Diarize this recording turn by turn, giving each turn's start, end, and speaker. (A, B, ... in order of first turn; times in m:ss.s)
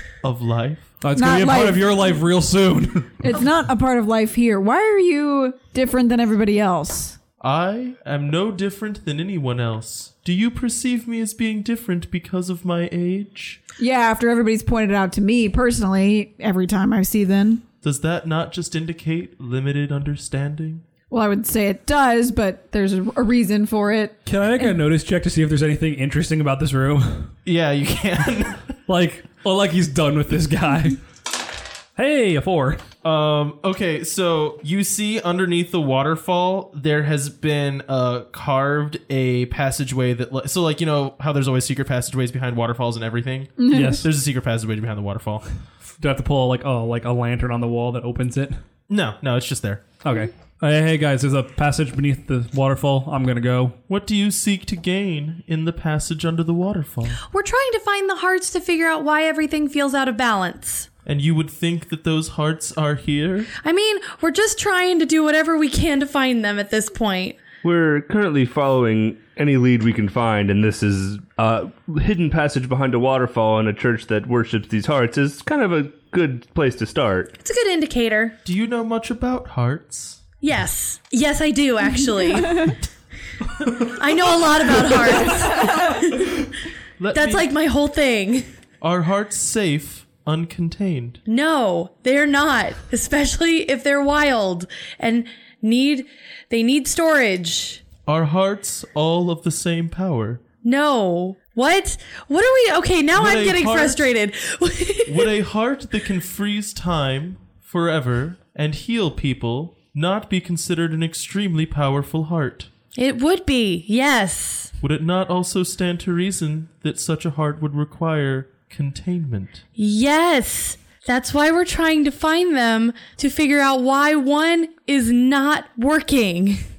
0:00.2-0:00.9 A
0:01.0-0:03.4 B
0:01.2-0:01.8 C
0:03.2-0:07.2 C
0:07.4-0:13.6 A
0:13.8-0:17.6 C
0:17.8-0:20.8 A
0:21.1-0:24.7 C
0:24.2-0:27.3 B
0:27.4-0:28.7 A
0:28.9-0:31.0 B
0:32.0-0:32.9 B
0:33.0-0:45.5 A
0:43.6-0:44.0 C
0:43.7-0:44.1 B
0:46.0-0:48.6 B
0:48.9-0:49.8 A
0:50.0-0:53.8 B
0:53.9-0:57.2 A
0:57.3-1:00.9 D
1:01.0-1:03.5 A
1:03.6-1:07.4 D
1:07.6-1:17.3 E
1:17.4-1:18.4 D
1:18.4-1:20.2 A
1:20.4-1:22.8 D
1:23.7-1:26.5 D
1:27.0-1:27.5 A
1:27.1-1:28.5 D
1:28.8-1:31.2 A
1:31.3-1:37.8 D
1:38.0-1:40.4 A
1:40.6-1:45.4 D
1:43.1-1:44.1 A
1:45.0-1:52.7 A
1:53.0-1:54.7 D
1:54.8-1:59.6 A
1:59.8-2:06.6 D